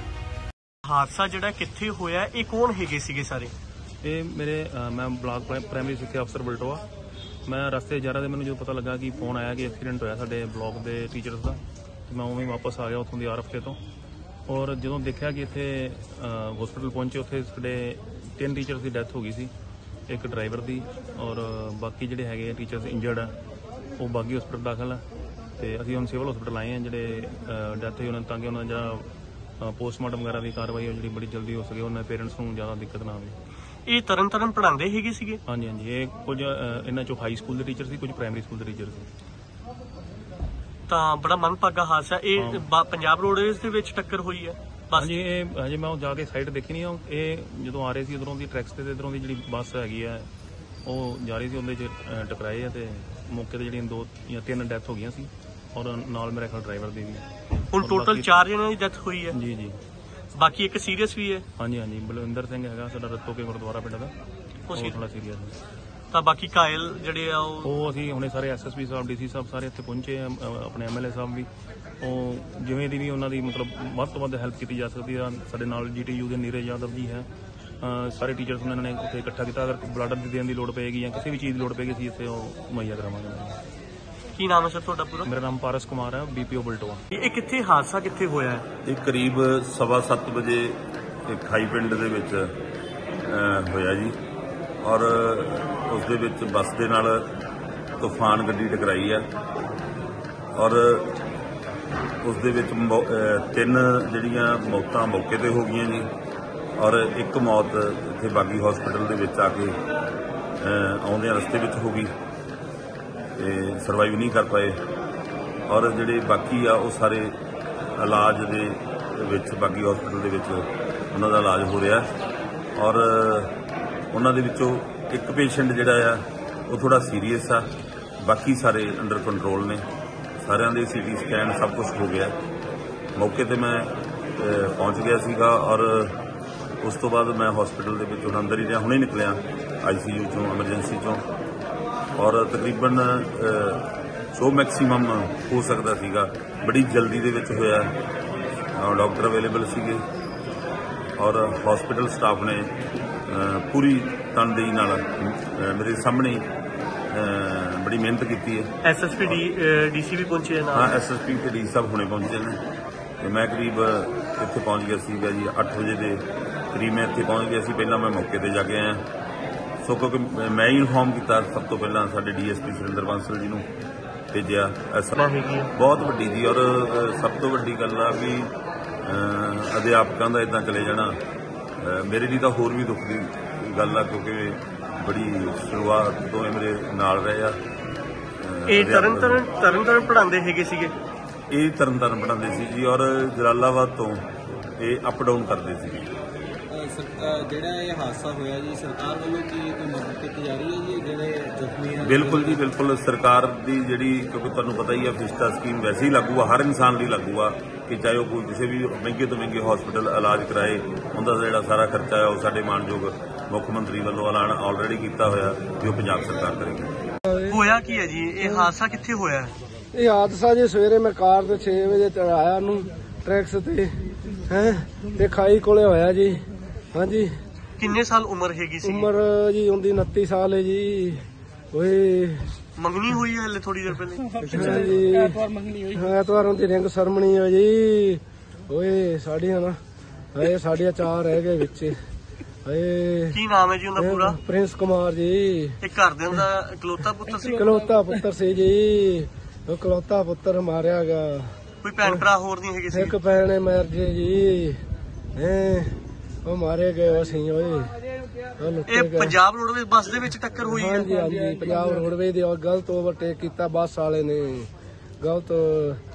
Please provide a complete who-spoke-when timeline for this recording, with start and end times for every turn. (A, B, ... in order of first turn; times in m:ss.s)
0:00.9-0:03.5 A
0:04.0-0:06.8 B
0:07.5-0:13.8 B
0:14.5-0:19.5 B
0:20.1-0:23.3 B
0:24.0-0:25.0 B
0:25.6-0:29.0 B
0:29.6-0:33.4 B
0:33.9-0:35.4 A
0:35.5-0:39.1 B
0:40.9-0:45.1 A
0:44.9-0:50.2 B
0:50.8-0:57.2 B
0:57.7-0:59.4 A
0:57.8-0:58.3 B
0:59.3-0:59.8 B
1:00.4-1:01.4 A
1:01.6-1:04.1 B
1:04.7-1:05.0 A
1:04.7-1:05.6 B
1:06.1-1:07.7 A
1:07.6-1:11.5 B
1:12.0-1:17.3 B
1:17.8-1:23.6 B
1:24.4-1:25.3 A
1:25.2-1:27.0 B
1:27.1-1:28.6 A
1:28.8-1:32.4 C
1:33.3-1:34.2 C
1:34.8-1:37.3 C
1:38.0-1:39.3 C
1:40.6-1:41.2 C
1:42.2-1:46.1 C
1:46.8-1:49.8 C
1:50.6-1:52.1 C
1:53.4-1:54.8 C
1:55.7-1:57.4 C
1:58.0-2:02.1 C
2:02.8-2:03.5 C
2:04.1-2:07.7 C
2:08.2-2:09.9 C
2:10.4-2:12.4 C
2:13.2-2:16.2 C
2:16.8-2:21.2 C
2:22.2-2:27.9 C
2:28.8-2:30.0 C
2:31.2-2:32.7 C
2:33.3-2:36.4 C
2:37.1-2:39.4 C
2:38.8-2:41.0 A
2:40.7-2:42.6 C
2:43.2-2:49.0 C
2:49.8-2:53.7 C
2:54.3-2:55.2 C
2:55.2-2:55.7 A
2:55.8-2:58.5 C
2:59.0-3:01.2 C
3:01.8-3:07.6 C
3:08.4-3:09.4 C
3:08.7-3:10.9 A
3:11.5-3:14.3 C
3:14.8-3:16.1 C
3:16.7-3:22.6 D
3:22.0-3:36.9 C
3:37.2-3:37.6 E
3:37.5-3:39.5 A
3:38.4-3:38.7 E
3:39.9-3:43.9 E
3:44.5-3:46.4 E
3:46.9-3:47.3 E
3:47.8-3:49.1 A
3:48.8-3:52.4 E
3:52.8-3:54.9 A
3:54.5-3:59.8 E
4:00.3-4:02.0 E
4:02.6-4:03.4 E
4:03.3-4:04.4 A
4:04.0-4:05.8 E
4:05.8-4:07.7 A
4:07.5-4:11.5 E
4:11.8-4:13.2 A
4:12.9-4:14.8 E
4:15.4-4:17.9 E
4:18.6-4:19.4 E
4:18.9-4:21.1 A
4:20.7-4:24.7 E
4:25.2-4:26.0 E